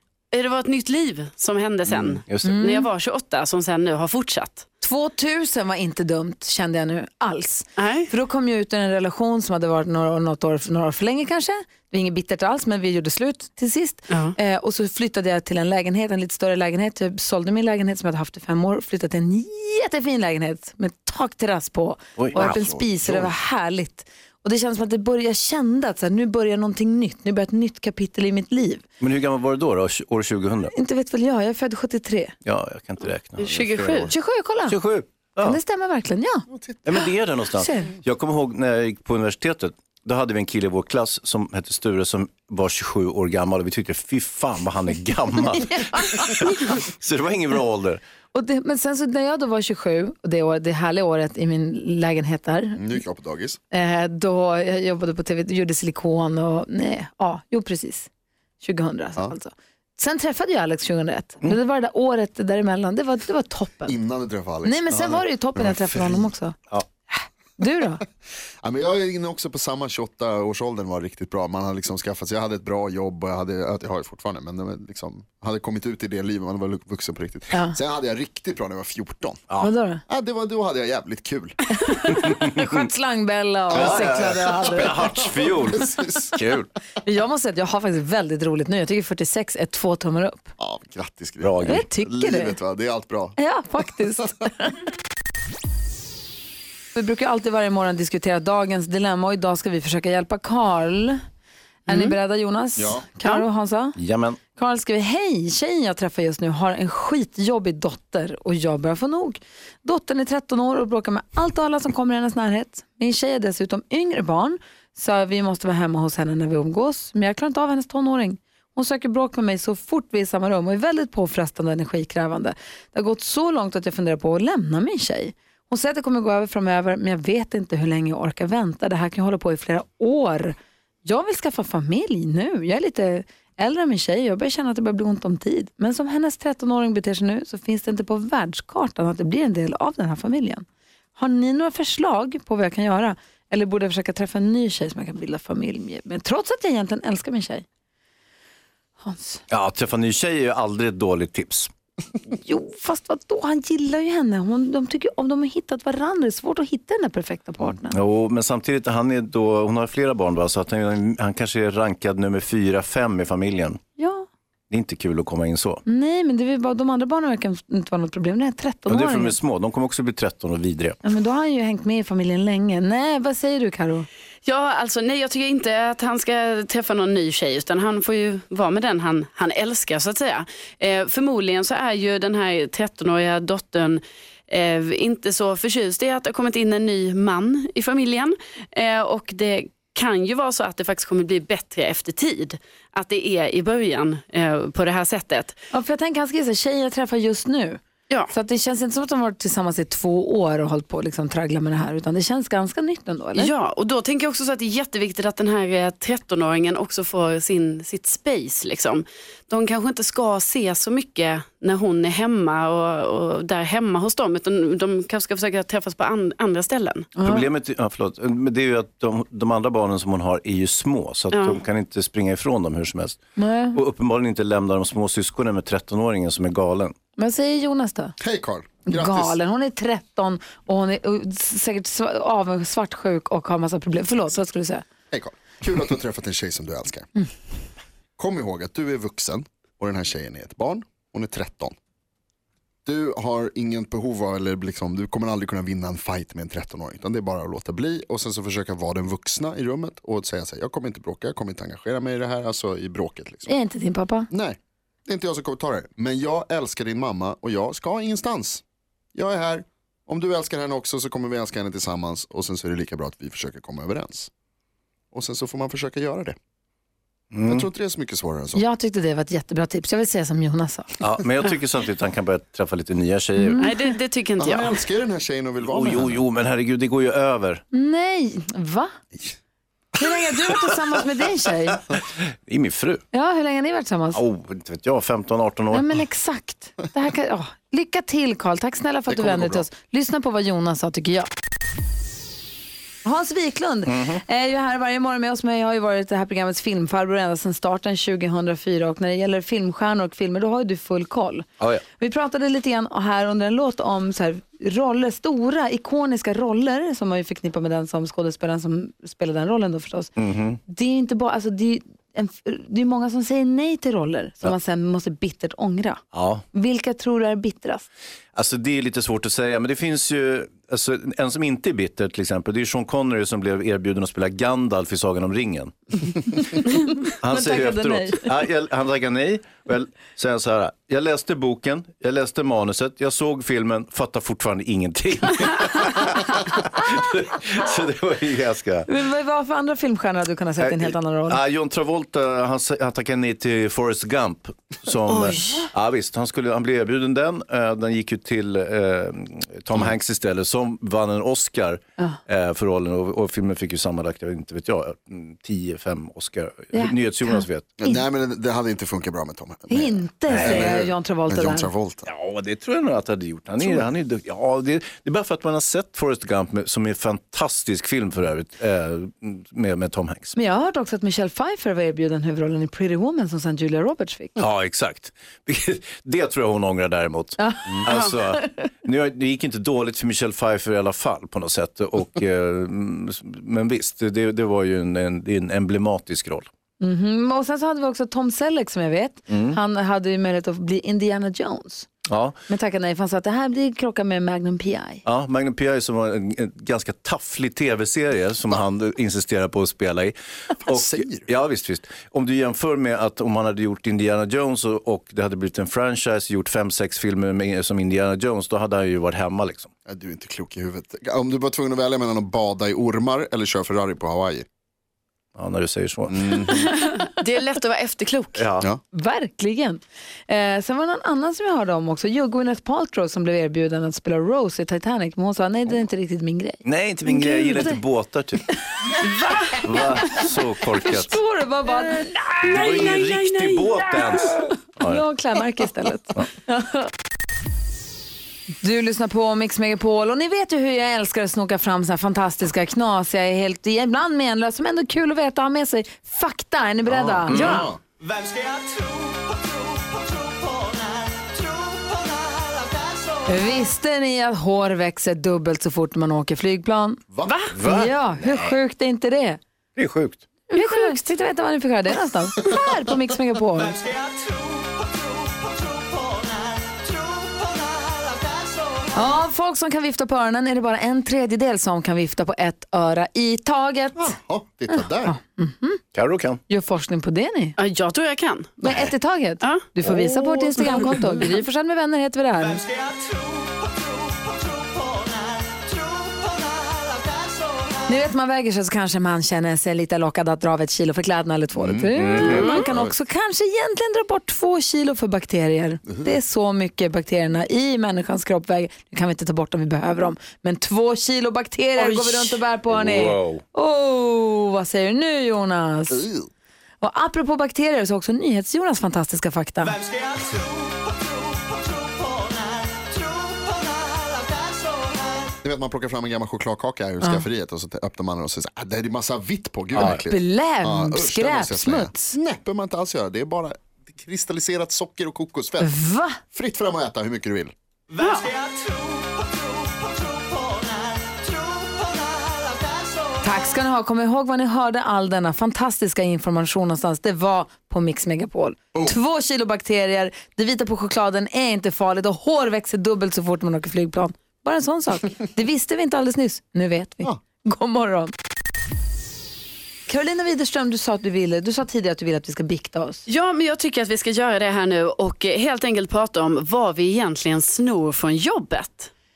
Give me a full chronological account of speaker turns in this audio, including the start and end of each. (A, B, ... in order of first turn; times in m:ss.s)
0:00.3-0:04.6 A
0:02.3-0:02.6 B
0:02.4-0:02.9 C
0:04.8-0:28.8 C
0:07.8-0:08.1 A
0:14.1-0:14.4 A
0:22.2-0:22.7 B
0:22.4-0:23.3 D
0:29.0-0:30.7 B
0:30.7-0:32.3 C
0:32.4-0:34.1 B
0:33.4-0:34.1 A
0:33.6-0:34.1 D
0:34.1-0:34.8 C
0:34.7-0:35.6 B
0:35.4-0:36.5 C
0:36.5-0:37.0 D
0:36.8-0:48.0 B
0:37.5-0:37.9 C
0:45.8-0:46.7 C
0:48.3-0:52.8 C
0:52.8-0:53.6 D
0:53.7-0:58.1 C
0:58.6-1:04.0 C
1:03.9-1:06.3 D
1:04.6-1:06.6 C
1:07.1-1:08.0 C
1:08.6-1:19.5 D
1:19.6-1:20.0 C
1:20.1-1:21.6 D
1:21.8-1:25.3 C
1:22.2-1:22.5 B
1:23.7-1:26.3 D
1:23.7-1:26.7 B
1:27.0-1:30.5 C
1:30.6-1:33.4 D
1:31.4-1:31.8 B
1:31.6-1:32.6 C
1:33.4-1:34.8 C
1:37.0-1:41.2 C
1:41.9-1:44.0 C
1:41.9-1:42.2 A
1:42.8-1:43.1 D
1:44.0-1:44.4 B
1:44.5-2:20.6 C
2:21.2-2:27.6 C
2:29.0-2:29.4 C
2:29.5-2:31.7 B
2:32.3-2:38.0 C
2:37.9-2:43.8 B
2:44.0-2:44.3 C
2:44.7-2:45.8 B
2:45.8-2:49.4 C
2:48.9-2:51.0 B
2:51.0-2:54.1 C
2:54.5-3:15.6 A
3:15.7-3:23.5 C
3:23.4-3:37.1 A
3:37.2-3:37.5 C
3:37.2-3:43.2 B
3:41.3-3:41.6 A
3:43.4-3:43.8 C
3:43.7-3:46.9 B
3:47.2-3:48.2 C
3:48.2-3:49.4 D
3:48.9-3:54.8 C
3:55.1-3:57.1 D
3:58.2-4:01.8 D
4:02.8-4:13.6 D
4:13.5-4:14.3 C
4:14.3-4:18.6 D
4:19.2-4:24.3 D
4:25.1-4:26.4 D
4:27.3-4:27.7 B
4:27.5-4:28.6 D
4:28.5-4:31.0 C
4:31.0-4:33.7 B
4:33.4-4:33.8 C
4:33.6-4:34.8 A
4:34.4-4:36.2 D
4:35.6-4:37.6 B
4:37.7-4:38.9 C
4:40.0-4:41.8 C
4:42.0-4:43.0 B
4:43.1-4:44.2 C
4:44.1-4:45.9 B
4:45.7-4:51.3 C
4:49.1-4:49.7 D
4:53.0-5:10.1 C
4:53.9-4:54.2 B
5:10.2-5:10.6 B
5:10.7-5:17.9 C
5:16.2-5:16.4 B
5:18.4-5:26.4 B
5:26.6-5:28.3 C
5:27.2-5:38.9 B
5:38.9-5:41.4 C
5:40.6-5:57.7 B
5:45.1-5:45.7 C
5:56.7-5:58.0 C
5:57.8-6:02.1 D
5:59.7-6:01.7 C
6:00.3-6:00.7 B
6:02.1-6:10.4 B
6:10.4-6:14.4 C
6:14.4-6:26.5 B
6:17.4-6:18.5 C
6:26.8-6:31.9 C
6:29.3-6:29.6 B
6:32.1-6:32.4 B
6:32.5-6:35.0 C
6:35.0-6:49.7 B
6:40.7-6:41.3 D
6:49.9-6:54.4 D
6:55.4-6:56.7 B
6:56.1-6:56.7 D
6:57.0-6:58.4 A
6:58.4-6:58.7 B
6:58.9-7:07.8 C
7:06.6-7:08.4 B
7:08.8-7:12.8 C
7:09.6-7:11.2 B
7:11.9-7:14.4 A
7:12.5-7:15.0 B
7:14.8-7:16.9 C
7:18.6-7:27.7 C
7:26.8-7:27.8 D
7:27.3-7:27.6 B
7:33.3-7:37.0 C
7:37.1-7:37.4 D
7:37.2-7:37.6 A
7:37.5-7:37.9 B
7:37.6-7:39.4 C
7:38.2-7:38.6 D
7:39.8-7:40.2 B
7:40.5-7:43.8 C
7:40.6-7:41.0 A
7:48.9-7:54.2 C
7:54.0-7:55.2 D
7:54.7-7:55.8 C
7:56.0-7:56.4 B
7:56.5-7:57.6 C
7:57.6-7:58.5 A
7:58.6-8:02.6 C
7:58.6-7:58.9 D
7:59.8-8:00.8 D
8:00.6-8:00.9 A
8:07.9-8:26.1 C
8:11.5-8:12.9 D
8:12.0-8:12.6 B
8:12.2-8:12.7 A
8:21.8-8:22.1 A
8:22.7-8:23.4 B
8:25.9-8:26.3 D
8:26.8-8:29.8 C
8:35.4-8:45.7 D
8:37.0-8:37.3 C
8:39.8-8:42.2 C
8:45.6-8:46.2 C
8:46.3-8:47.5 D
8:48.0-8:48.4 A
8:53.2-9:08.1 C
9:09.9-9:13.0 C
9:13.1-9:18.9 A